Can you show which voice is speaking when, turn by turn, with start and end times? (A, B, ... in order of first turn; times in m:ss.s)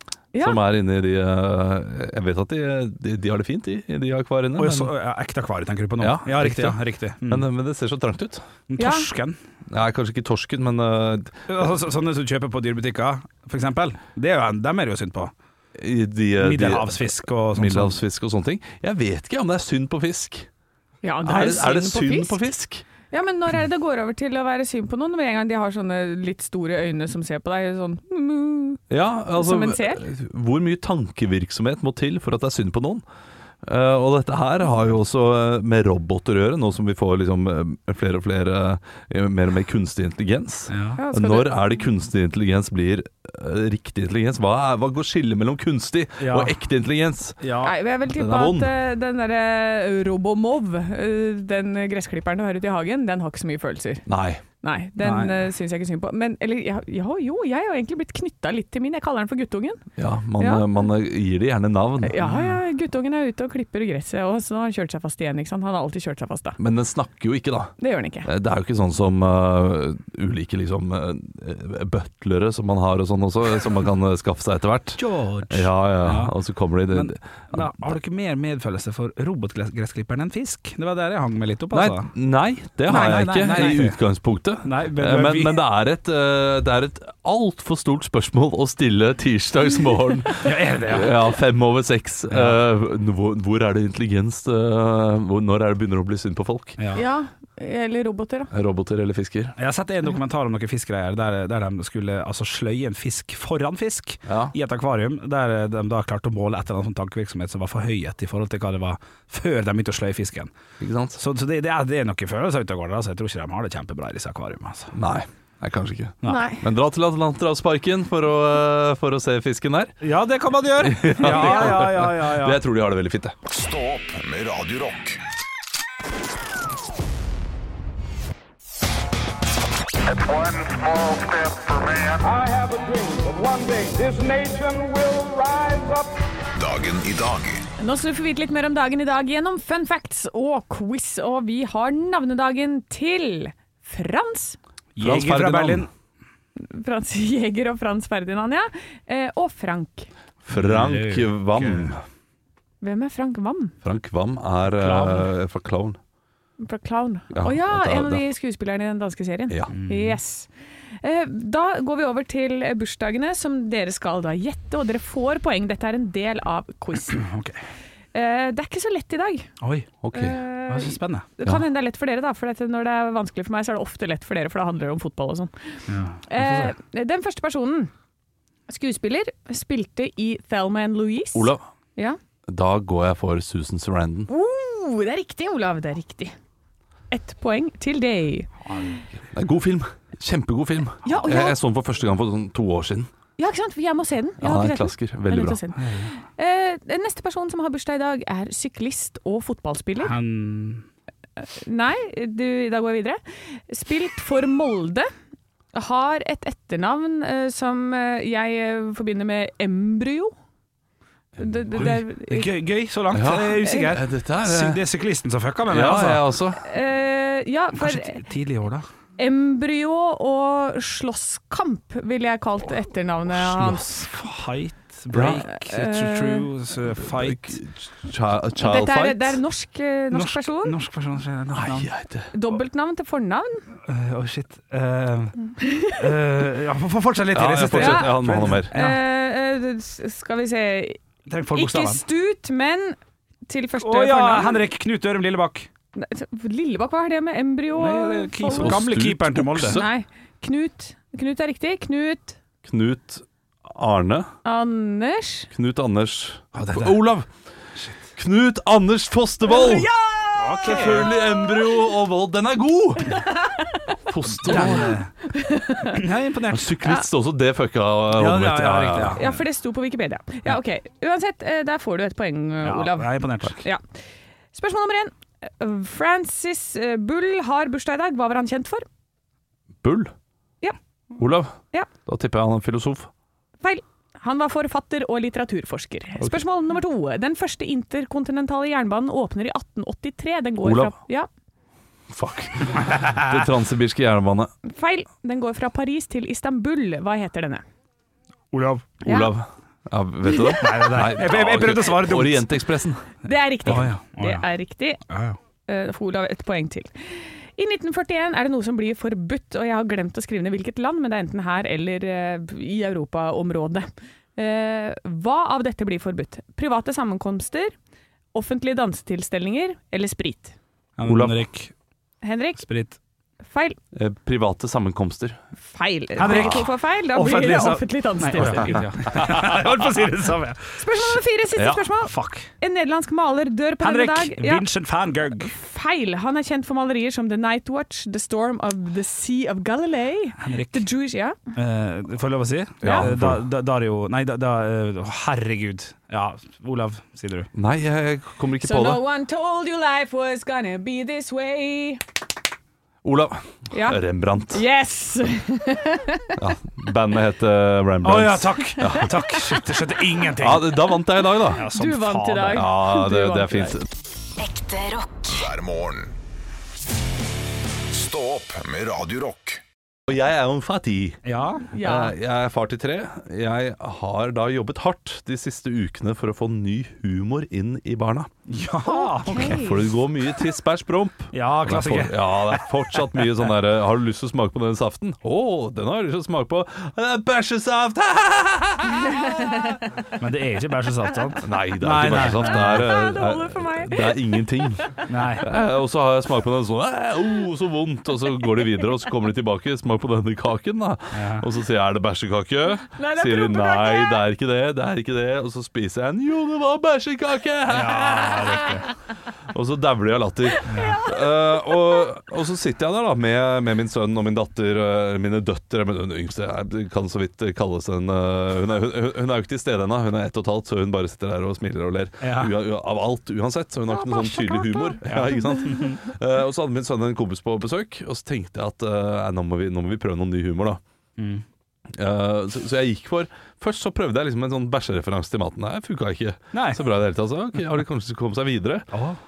0:00.4-0:04.9 A
0:04.6-0:07.4 B
0:06.0-0:08.4 A
0:08.7-0:09.4 B
0:08.8-0:09.1 C
0:09.7-0:11.5 A
0:11.5-0:15.3 B
0:15.8-0:20.5 A
0:16.4-0:18.0 B
0:21.0-0:22.5 C
0:21.2-0:22.8 A
0:23.1-0:28.8 C
0:28.9-0:33.0 A
0:29.4-0:30.0 C
0:33.6-0:47.4 A
0:40.7-0:41.0 B
0:41.0-0:41.5 C
0:46.2-0:46.5 B
0:47.4-0:47.7 B
0:47.6-0:54.0 C
0:48.1-0:48.7 A
0:54.1-0:54.4 A
0:54.6-0:59.8 C
0:55.0-0:55.3 B
1:00.0-1:02.2 A
1:00.4-1:00.6 C
1:02.0-1:06.6 C
1:02.2-1:02.6 B
1:06.6-1:17.8 A
1:07.8-1:08.3 C
1:15.0-1:16.3 B
1:16.9-1:22.1 B
1:21.7-1:36.8 A
1:22.9-1:24.0 B
1:22.9-1:23.7 C
1:24.6-1:25.6 B
1:30.4-1:31.3 B
1:32.3-1:32.6 B
1:36.8-1:37.0 B
1:36.9-1:38.5 C
1:38.5-1:39.5 A
1:39.6-1:50.5 B
1:44.3-1:44.5 A
1:50.8-1:51.2 A
1:51.1-1:54.9 B
1:54.9-2:00.0 A
1:56.2-1:56.6 C
2:00.0-2:02.6 B
2:00.8-2:03.3 A
2:03.5-2:05.2 D
2:10.6-2:11.5 D
2:12.1-2:16.1 E
2:16.6-2:17.6 D
2:17.8-2:24.6 C
2:25.0-2:25.9 B
2:25.0-2:25.9 A
2:26.6-2:30.1 C
2:30.4-2:32.0 A
2:30.5-2:32.0 B
2:32.8-2:33.7 C
2:33.8-2:36.0 A
2:34.8-2:35.3 B
2:36.6-2:40.5 C
2:37.3-2:38.2 A
2:39.7-2:40.2 B
2:41.0-2:47.3 C
2:47.1-2:47.6 B
2:48.1-2:49.5 C
2:49.6-2:50.0 B
2:50.0-2:50.4 A
2:50.1-2:57.9 C
2:50.7-2:51.3 B
2:55.9-2:56.7 B
2:58.7-3:02.2 C
3:01.3-3:01.6 A
3:02.5-3:04.3 A
3:04.3-3:06.3 C
3:07.1-3:08.9 C
3:09.3-3:13.1 A
3:11.0-3:11.6 C
3:13.4-3:20.2 C
3:14.4-3:15.6 A
3:15.7-3:16.1 B
3:20.0-3:20.8 B
3:21.4-3:25.1 C
3:25.7-3:30.3 C
3:31.4-3:32.5 C
3:31.8-3:36.3 B
3:33.1-3:34.8 A
3:35.7-3:36.6 A
3:36.6-3:38.2 C
3:37.8-3:38.9 B
3:39.2-3:44.0 C
3:43.3-3:44.1 A
3:44.0-3:47.6 B
3:45.1-3:45.4 A
3:45.5-3:46.5 C
3:47.0-3:49.4 A
3:48.6-3:50.8 C
3:50.1-3:51.9 B
3:51.5-3:52.3 A
3:52.3-3:53.6 C
3:53.8-3:55.4 B
3:55.6-3:56.0 C
3:55.9-3:59.0 B
3:57.3-3:58.7 A
3:57.7-4:01.0 C
4:01.3-4:02.0 B
4:01.5-4:03.0 C
4:03.5-4:04.6 C
4:03.8-4:05.7 B
4:05.9-4:08.8 C
4:07.7-4:09.8 B
4:08.5-4:09.9 A
4:09.6-4:12.4 C
4:12.6-4:14.3 A
4:14.4-4:15.5 C
4:15.5-4:17.3 A
4:16.5-4:17.0 B
4:17.8-4:18.0 B
4:18.1-4:19.9 A
4:19.5-4:21.7 C
4:20.4-4:21.1 B
4:20.6-4:23.2 A
4:23.1-4:23.9 C
4:24.0-4:24.9 A
4:24.4-4:25.1 B
4:25.3-4:26.0 C
4:25.9-4:26.9 B
4:26.5-4:29.3 A
4:28.1-4:29.3 B
4:29.2-4:33.8 C
4:32.6-4:33.6 B
4:34.5-4:38.8 C
4:39.8-4:40.1 A
4:41.2-4:43.1 A
4:43.6-4:51.3 C
4:50.6-4:50.9 A
4:52.1-4:54.5 A
4:54.6-4:57.6 C
4:58.5-4:58.9 B
4:59.0-5:03.0 A
4:59.0-4:59.3 C
5:00.3-5:00.6 C
5:00.6-5:02.5 B
5:03.2-5:05.0 C
5:03.6-5:04.5 B
5:05.1-5:05.4 B
5:05.7-5:17.7 C
5:18.3-5:20.5 C
5:21.0-5:21.7 B
5:21.0-5:21.4 A
5:22.2-5:22.6 C
5:22.6-5:23.0 B
5:23.5-5:23.8 C
5:23.9-5:25.4 A
5:25.6-5:28.9 C
5:26.2-5:31.2 B
5:26.2-5:26.6 A
5:29.2-5:29.5 A
5:30.8-5:34.6 C
5:31.6-5:31.8 A
5:32.0-5:32.5 B
5:33.8-5:35.6 B
5:35.5-5:41.4 C
5:40.4-5:40.9 B
5:41.5-5:47.5 B
5:42.8-5:43.4 A
5:42.8-5:43.1 C
5:47.5-5:49.0 A
5:48.6-5:52.0 C
5:53.0-5:54.6 A
5:53.7-5:54.0 C
5:54.5-5:56.4 C
5:56.4-5:59.2 A
5:58.0-6:01.0 B
6:00.3-6:01.6 A
6:01.5-6:02.6 B
6:01.6-6:03.8 C
6:02.5-6:03.9 A
6:04.4-6:05.4 E
6:05.3-6:06.2 D
6:07.9-6:09.6 D
6:10.1-6:11.2 A
6:11.2-6:11.7 B
6:11.6-6:12.1 C
6:11.8-6:18.3 A
6:18.5-6:19.6 B
6:18.8-6:19.9 C
6:19.3-6:29.4 A
6:21.3-6:23.5 B
6:29.0-6:29.8 C
6:30.2-6:32.9 B
6:31.4-6:48.8 A
6:32.4-6:35.1 C
6:35.1-6:35.5 B
6:41.1-6:41.5 B
6:42.9-6:44.2 C
6:47.7-6:48.9 B
6:49.5-7:10.8 A
6:50.6-6:51.7 C
6:50.7-6:51.0 B
7:02.2-7:02.6 B
7:03.9-7:05.8 C
7:05.0-7:06.0 B
7:11.2-7:11.4 B
7:11.9-7:18.9 A
7:16.5-7:16.8 B
7:18.9-7:19.2 B